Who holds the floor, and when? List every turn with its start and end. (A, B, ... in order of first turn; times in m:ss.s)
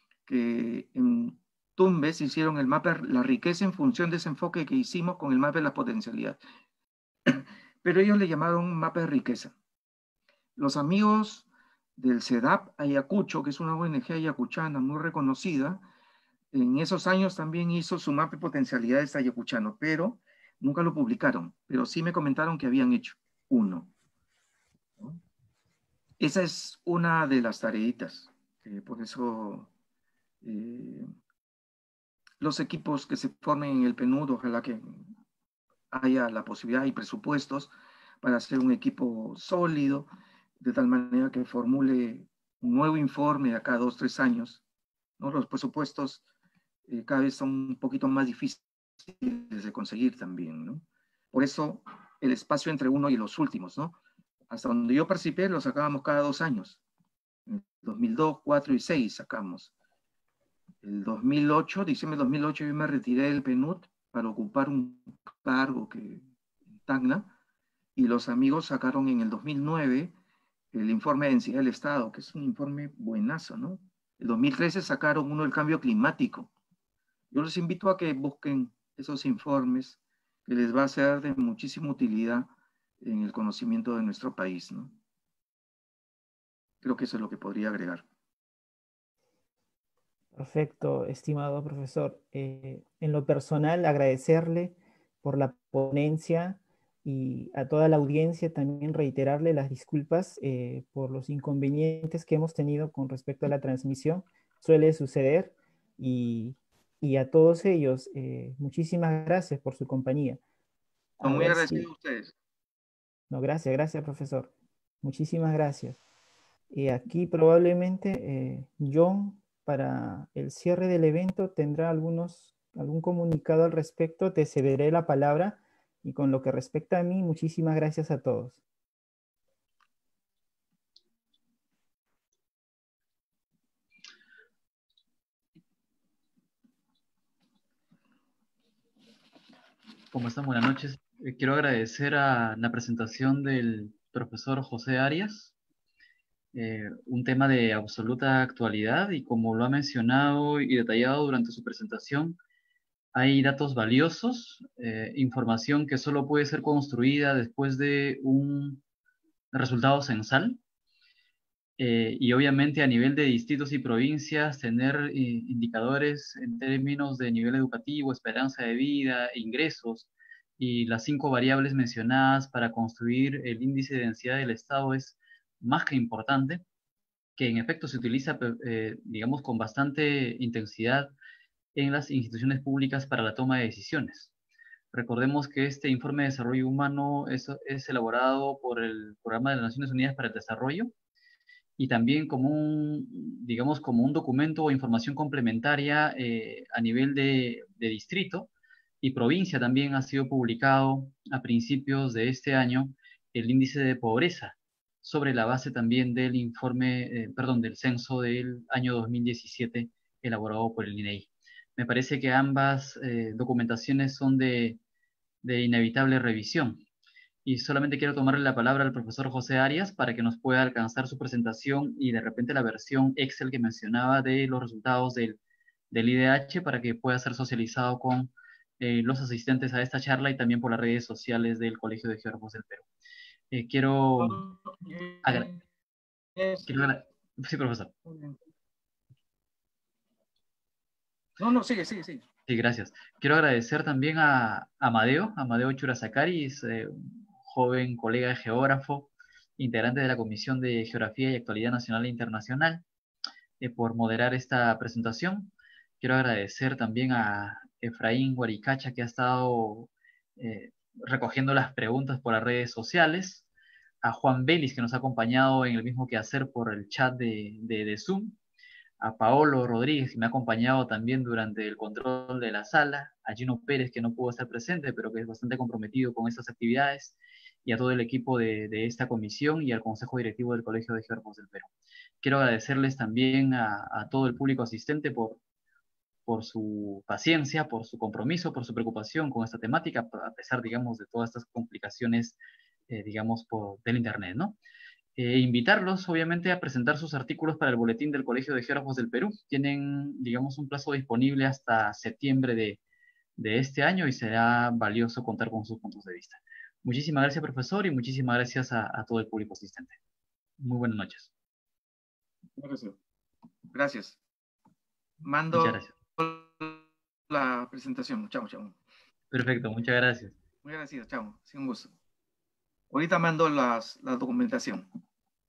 0:00.3-0:06.4 A
0:07.2-0:09.5 A
0:10.6-0:15.8 A
0:16.5-0:23.9 A
0:26.2-0:29.7 A
0:30.4-0:31.1 A
0:32.4-0:35.1 A
0:35.9-0:40.1 A
0:40.6-0:44.6 A
0:45.2-0:46.2 A
0:46.9-0:54.0 A
0:54.5-0:56.8 A
0:57.4-0:59.7 A
1:00.8-1:06.2 A
1:06.8-1:07.3 A
1:08.0-1:10.1 A
1:10.7-1:16.5 A
1:17.3-1:24.9 A
1:26.8-1:28.0 A
1:30.4-1:50.4 B
1:51.2-1:51.9 B
1:51.2-1:52.3 A
1:53.3-1:56.0 B
1:56.7-2:08.6 B
2:20.1-2:25.5 C
2:26.5-2:32.4 C
2:33.1-2:38.8 C
2:39.5-2:40.6 C
2:41.8-2:56.6 C
2:57.4-3:01.1 C
3:01.7-3:04.3 C
3:04.9-3:10.9 C
3:11.8-3:18.5 C
3:19.0-3:34.8 C
3:35.4-3:36.8 C
3:37.4-3:45.4 C
3:45.9-3:52.8 C
3:53.5-3:54.4 C
3:54.2-3:55.6 A
3:55.2-3:55.5 C
3:56.4-3:56.9 A
3:56.7-3:57.9 C
3:58.0-3:58.4 A
4:01.4-4:02.2 A
4:02.5-4:12.8 C
4:13.6-4:23.5 C
4:24.0-4:28.4 C
4:29.0-4:41.7 C
4:42.2-4:45.4 C
4:46.2-4:52.4 C
4:52.9-4:54.6 C
4:55.2-5:02.8 C
5:03.4-5:10.0 C
5:10.6-5:11.3 C
5:12.6-5:13.0 A
5:13.7-5:14.2 A
5:15.2-5:18.8 A
5:15.5-5:15.9 C
5:19.3-5:20.4 C
5:20.6-5:21.9 A
5:22.9-5:24.8 A